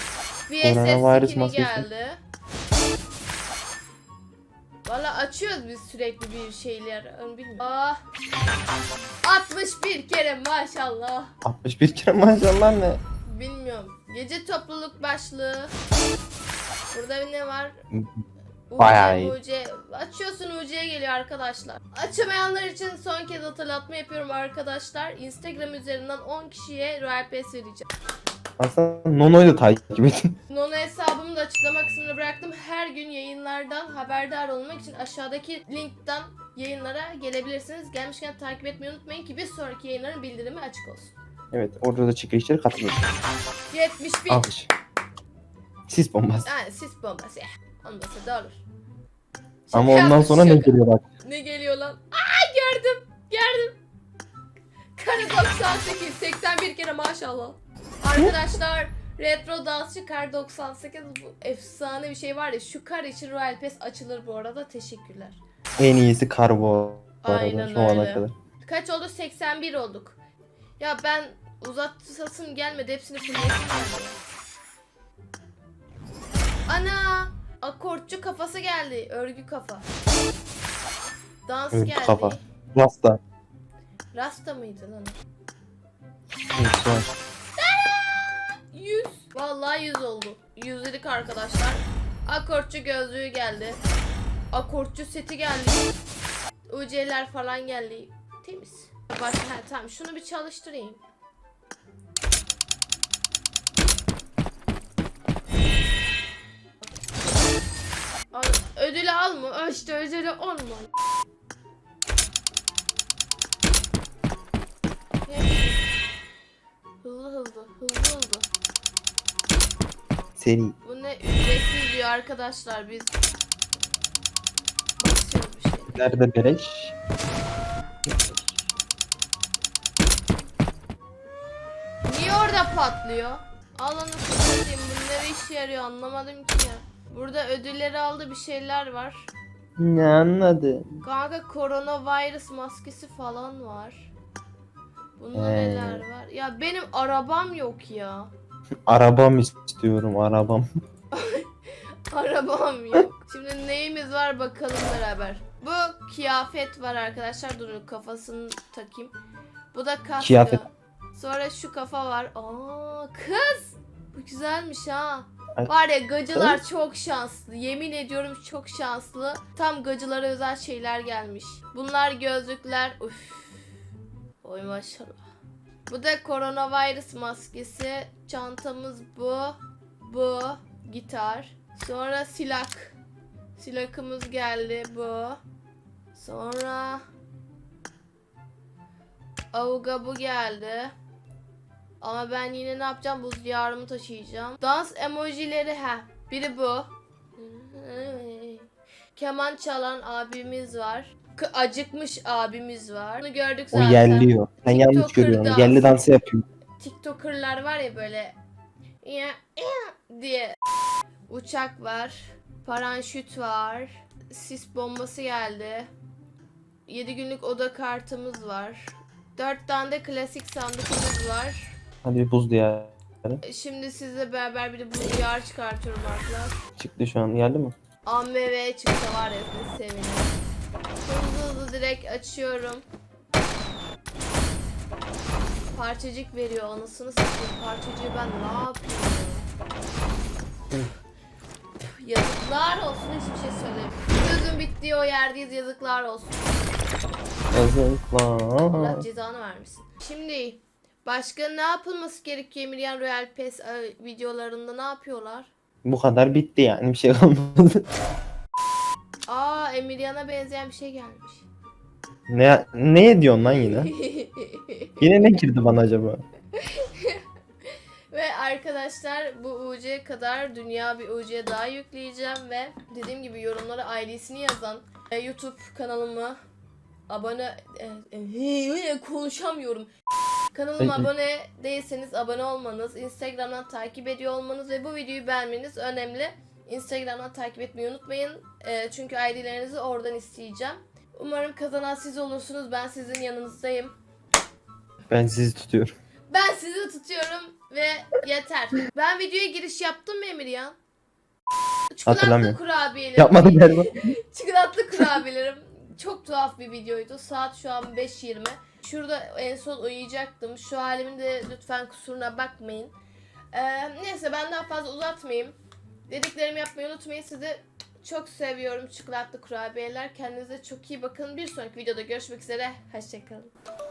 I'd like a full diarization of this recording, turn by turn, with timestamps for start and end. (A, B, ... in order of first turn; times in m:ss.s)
0:00.5-0:02.2 A
0:00.6-0:01.9 B
0:04.8-0:08.0 A
0:09.2-0:11.3 A
0:11.4-0:13.0 B
0:13.3-0:15.7 A
0:16.9-0:17.8 A
0:18.7-0:27.9 A
0:18.8-0:19.4 B
0:28.6-0:30.3 B
0:30.5-0:41.1 A
0:41.5-0:43.2 B
0:43.7-0:44.5 A
0:44.3-0:44.7 B
0:45.9-0:46.5 B
0:46.4-0:48.6 A
0:49.7-0:53.8 A
0:49.7-0:51.0 B
0:55.0-1:05.4 A
1:05.8-1:08.3 B
1:07.2-1:10.2 A
1:10.8-1:14.2 A
1:16.7-1:19.9 A
1:21.5-1:22.4 A
1:21.7-1:23.2 B
1:24.1-1:25.2 A
1:26.6-1:27.1 B
1:27.6-1:33.8 A
1:34.5-1:35.9 A
1:36.7-1:41.0 A
1:48.3-1:50.9 A
1:55.2-1:55.8 A
1:57.0-1:58.5 A
2:00.4-2:00.8 B
2:00.8-2:03.1 A
2:05.0-2:06.1 A
2:05.9-2:07.0 B
2:08.1-2:08.6 B
2:12.1-2:19.3 A
2:19.8-2:20.9 B
2:21.0-2:24.1 A
2:25.2-2:28.3 A
2:25.3-2:26.0 B
2:28.9-2:30.7 B
2:31.1-2:31.5 A
2:32.1-2:39.1 A
2:39.7-2:53.7 A
2:40.2-2:40.6 B
2:46.3-2:46.6 B
2:54.4-2:55.2 A
2:55.9-3:03.0 A
3:03.6-3:05.4 A
3:06.1-3:07.0 A
3:09.5-3:10.9 A
3:12.0-3:26.0 A
3:23.7-3:26.4 B
3:26.8-3:28.4 A
3:29.0-3:30.6 A
3:31.3-3:35.9 A
3:36.9-3:41.8 A
3:42.0-3:43.4 B
3:43.4-3:46.6 A
3:46.8-3:47.7 B
3:48.0-3:50.4 A
3:51.0-3:52.8 A
3:55.7-3:59.5 A
4:01.8-4:06.6 A
4:07.5-4:09.0 B
4:08.7-4:15.5 A
4:15.8-4:17.8 B
4:19.3-4:21.5 A
4:22.3-4:23.9 B
4:23.6-4:25.0 A
4:25.0-4:26.2 B
4:26.6-4:27.2 A
4:28.1-4:36.4 A
4:37.1-4:39.9 A
4:40.5-4:53.9 A
4:40.8-4:41.1 B
4:55.1-4:55.9 B
4:56.3-5:00.8 A
5:01.9-5:13.0 A
5:02.1-5:02.6 B
5:03.2-5:04.0 B
5:13.5-5:15.6 A
5:16.1-5:23.5 A